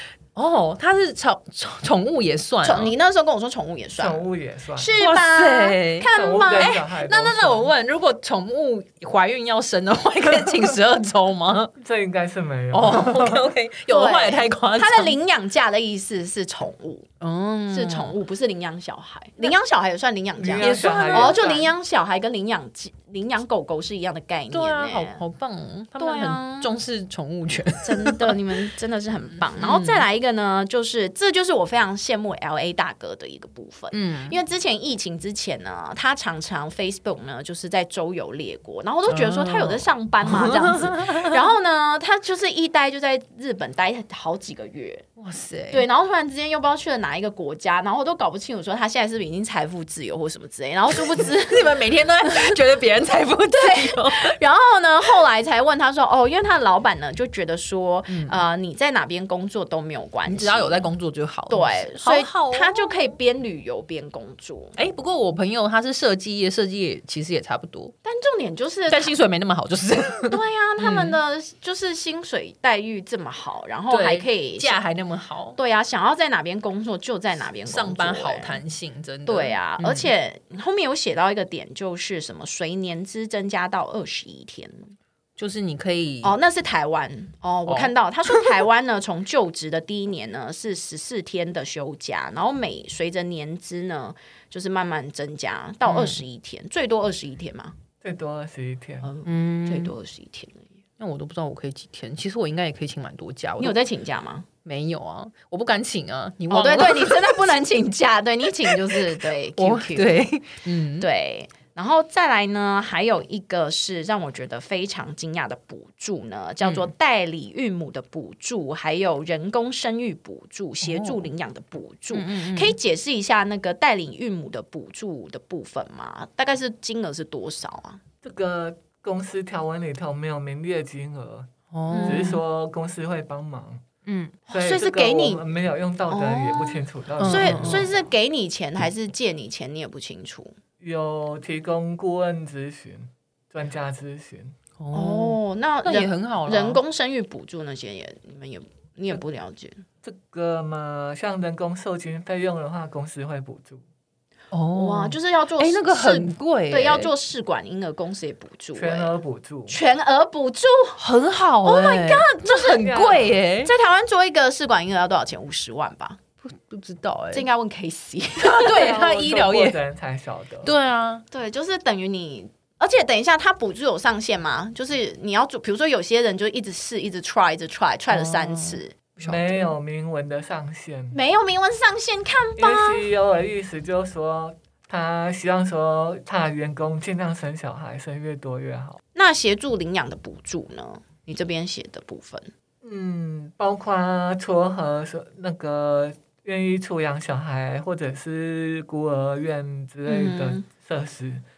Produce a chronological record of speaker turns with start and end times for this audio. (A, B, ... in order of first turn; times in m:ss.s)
0:00.3-0:02.9 A
0:02.6-0:06.8 B
0:04.0-0:04.9 C
0:05.0-0:11.7 A
0:06.1-0:07.7 C
0:11.8-0:13.5 C
0:12.7-0:15.2 A
0:13.9-0:17.1 B
0:17.2-0:18.2 A
0:17.7-0:25.2 B
0:20.4-0:21.7 C
0:20.6-0:21.5 A
0:24.5-0:28.6 A
0:26.0-0:26.7 B
0:27.8-0:45.0 B
0:29.6-0:30.0 A
0:33.9-0:34.4 A
0:39.1-0:41.4 A
0:45.2-0:45.8 A
0:45.7-0:51.7 B
0:50.9-0:54.3 A
0:52.2-0:52.6 B
0:53.6-1:00.9 B
0:58.1-0:58.4 A
1:00.2-1:03.0 A
1:01.5-1:04.8 B
1:04.8-1:07.9 A
1:08.0-1:09.2 B
1:08.9-1:11.2 A
1:10.3-1:14.8 B
1:13.9-1:15.6 A
1:15.6-1:18.6 B
1:17.6-1:20.1 A
1:19.2-1:24.9 B
1:25.4-1:26.4 A
1:26.2-1:37.7 B
1:35.8-1:36.2 A
1:38.0-1:39.1 C
1:39.0-1:40.7 B
1:39.2-1:39.9 A
1:41.0-1:43.8 A
1:43.6-1:44.5 B
1:44.6-1:47.6 A
1:46.5-1:50.2 B
1:48.6-1:49.0 A
1:49.6-1:51.1 A
1:51.0-2:08.0 B
1:56.6-1:56.9 A
2:00.8-2:01.3 A
2:02.1-2:02.8 A
2:08.2-2:13.8 C
2:11.7-2:12.4 A
2:11.9-2:12.4 B
2:14.0-2:14.4 A
2:14.5-2:15.4 B
2:14.5-2:18.0 C
2:16.1-2:20.5 B
2:17.2-2:17.9 A
2:20.8-2:24.5 C
2:24.8-2:26.8 A
2:24.9-2:29.8 B
2:30.0-2:33.8 C
2:34.5-2:37.1 A
2:34.7-2:39.1 B
2:38.8-2:39.8 C
2:39.7-2:41.0 B
2:41.0-2:43.7 A
2:41.6-2:42.9 B
2:42.7-2:43.3 C
2:43.6-2:46.2 B
2:46.4-2:47.5 A
2:47.3-2:48.9 B
2:48.4-2:49.8 A
2:48.5-2:50.7 C
2:50.6-2:51.2 A
2:51.3-2:59.0 B
2:58.1-2:59.6 A
2:59.2-3:01.2 C
3:01.1-3:03.0 B
3:02.6-3:09.0 C
3:09.1-3:12.5 B
3:12.8-3:21.4 C
3:20.0-3:20.6 B